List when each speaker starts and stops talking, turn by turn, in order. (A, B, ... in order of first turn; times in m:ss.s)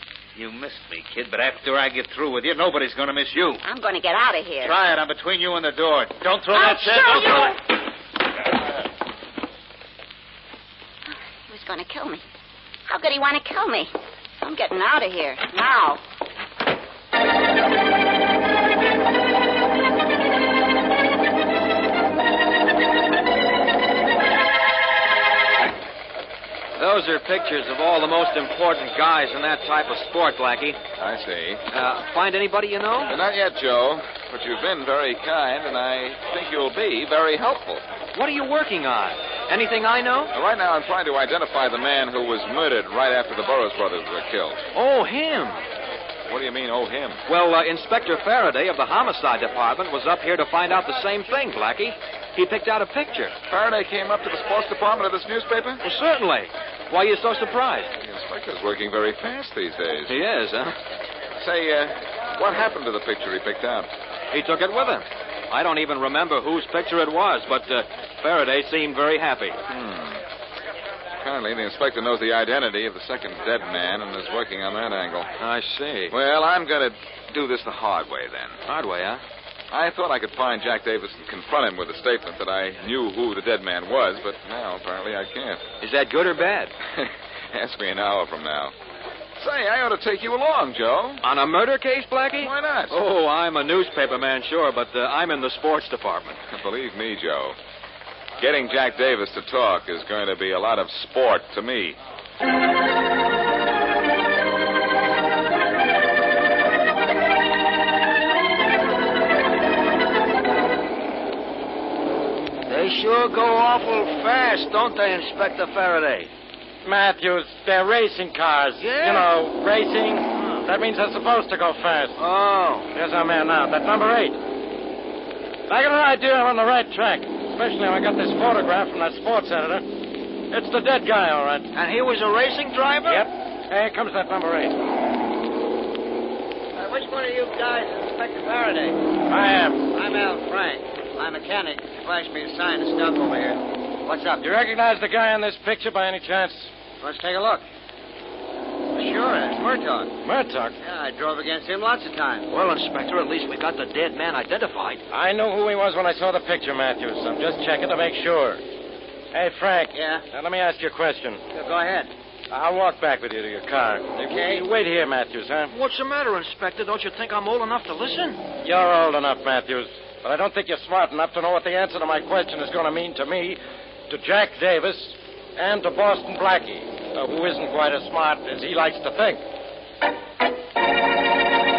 0:00.3-0:03.6 A
0:03.6-0:04.8 B
0:04.6-0:07.5 A
0:06.5-0:07.5 B
0:11.1-0:12.2 B
0:12.9-0:16.0 B
0:26.8-0:30.8 C
0:30.9-0:31.6 D
0:31.7-0:33.2 C
0:33.1-0:37.8 D
0:38.1-0:40.3 C
0:40.3-0:44.6 D
0:44.7-0:45.6 C
0:46.3-0:47.2 D
0:47.3-0:53.4 C
0:53.5-0:55.8 D
0:55.8-0:57.9 C
0:58.0-1:00.1 D
1:00.1-1:00.7 C
1:01.4-1:03.9 D
1:04.3-1:09.6 C
1:09.7-1:10.2 D
1:11.2-1:15.3 D
1:15.4-1:16.1 C
1:16.1-1:18.6 D
1:18.7-1:19.2 C
1:19.7-1:25.7 D
1:25.8-1:26.7 C
1:26.9-1:28.7 D
1:29.4-1:31.2 D
1:31.2-1:36.4 C
1:32.4-1:33.0 D
1:36.5-1:37.6 D
1:38.4-1:42.0 D
1:52.7-1:56.3 C
1:56.8-2:02.2 E
1:58.8-1:59.3 C
2:00.4-2:00.6 C
2:02.2-2:02.9 C
2:02.9-2:04.4 E
2:05.7-2:09.8 E
2:10.5-2:11.7 E
2:11.7-2:13.2 C
2:13.0-2:14.7 E
2:16.8-2:19.0 F
2:19.3-2:19.8 E
2:19.9-2:24.4 F
2:24.4-2:26.7 E
2:27.0-2:27.6 F
2:28.9-2:30.1 F
2:30.2-2:30.7 E
2:30.8-2:32.5 F
2:32.5-2:35.0 C
2:35.1-2:38.6 E
2:39.3-2:41.4 E
2:39.9-2:40.2 F
2:41.5-2:42.1 F
2:42.5-2:45.7 E
2:44.2-2:44.6 F
2:45.7-2:48.4 C
2:48.6-2:59.4 E